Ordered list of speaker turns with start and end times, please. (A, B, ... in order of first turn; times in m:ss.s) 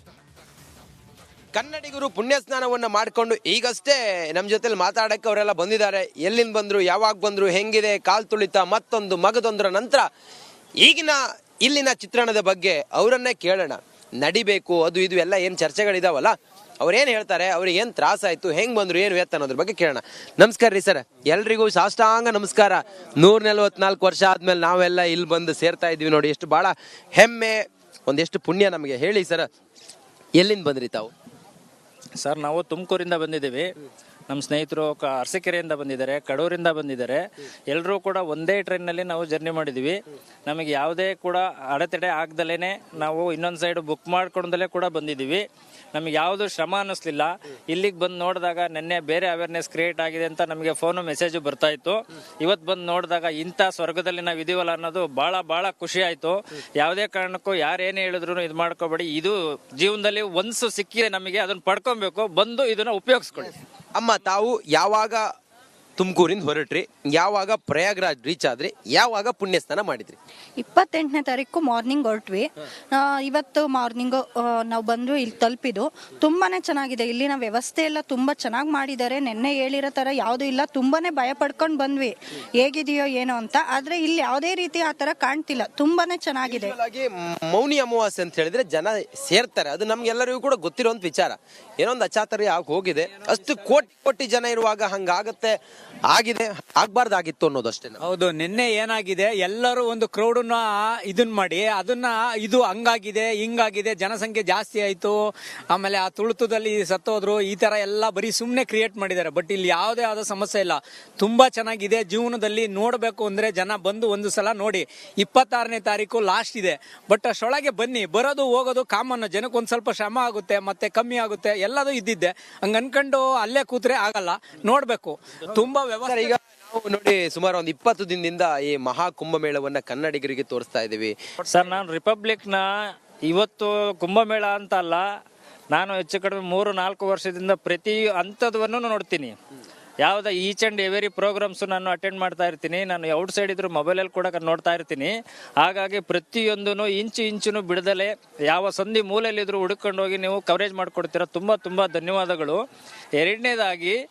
0:01.5-0:10.1 A
0:10.8-0:29.5 A
0:30.4-0:31.1 A
0:32.2-0:33.7 B
0:34.3-0:40.0 B
0:40.5-0:45.4 B
0:45.9-1:03.6 B
1:04.0-1:05.2 A
1:06.0-1:10.2 A
1:10.6-1:26.7 C
1:26.4-1:35.6 A
1:36.1-1:38.0 A
1:38.0-2:06.3 D
2:06.0-2:11.2 A
2:11.5-2:12.6 B
2:13.3-2:15.0 B
2:15.7-2:19.3 B
2:20.0-2:32.6 B
2:33.2-2:34.0 B